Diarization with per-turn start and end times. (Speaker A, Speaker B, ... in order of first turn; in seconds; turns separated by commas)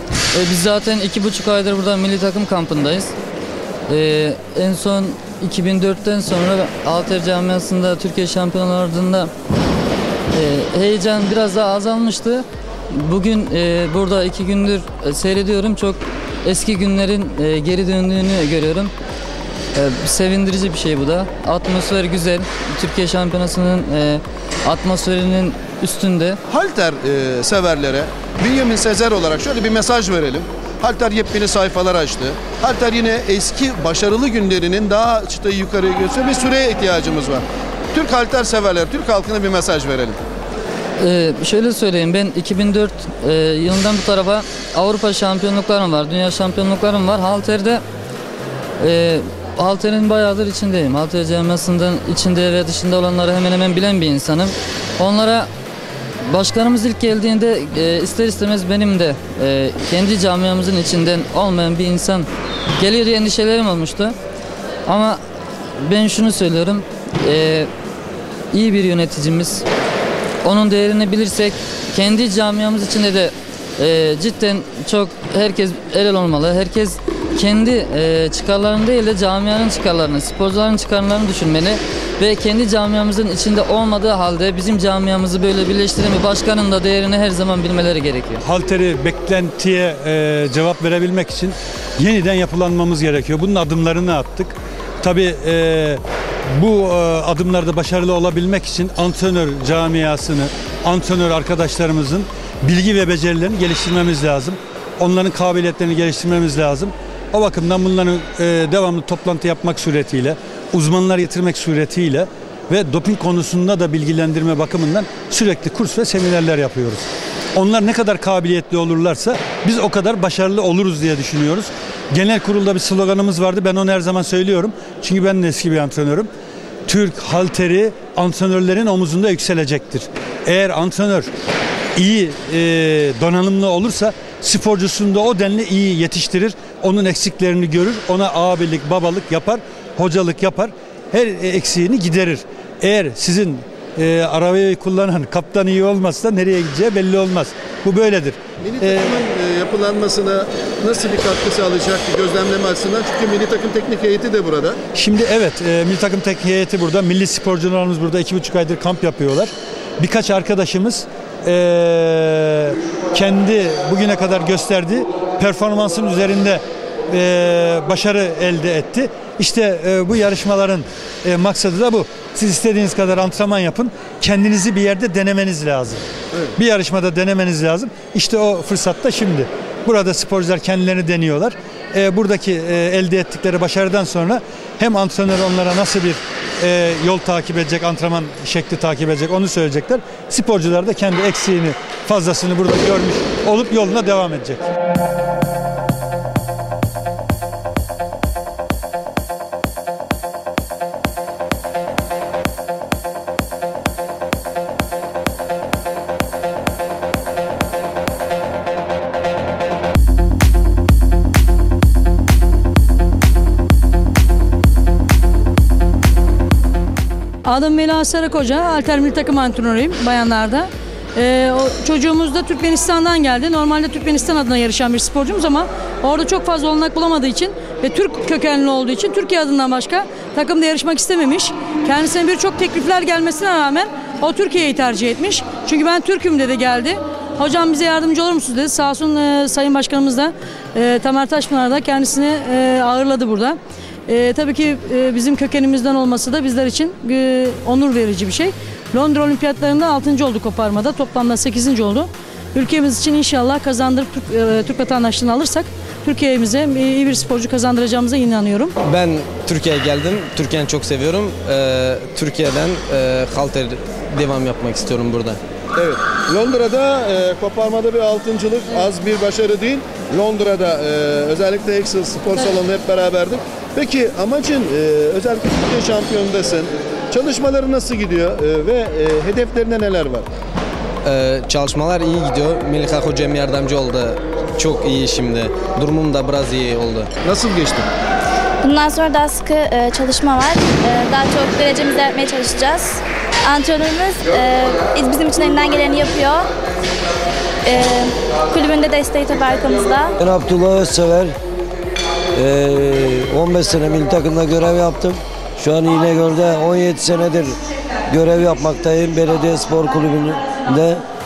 Speaker A: 0.3-3.1, Speaker A: 3.9-9.3, Speaker A: 10.3-18.9, Speaker A: 19.7-26.4, Speaker B: 26.5-40.2, Speaker A: 41.0-47.8, Speaker A: 48.8-55.5, Speaker A: 56.2-64.1, Speaker A: 64.9-65.2, Speaker A: 65.8-67.7, Speaker A: 68.5-69.6, Speaker A: 70.4-88.4, Speaker C: 88.4-96.0, Speaker C: 96.5-126.3, Speaker C: 126.9-131.3, Speaker C: 131.9-149.2, Speaker B: 148.6-154.8, Speaker C: 154.9-176.0, Speaker C: 176.6-194.7, Speaker D: 217.4-258.7, Speaker E: 258.8-265.4, Speaker B: 265.8-280.3, Speaker E: 281.0-287.1, Speaker B: 287.2-287.9, Speaker F: 288.6-296.5, Speaker F: 297.6-300.1, Speaker G: 300.2-301.3, Speaker G: 302.4-307.6, Speaker G: 308.1-311.0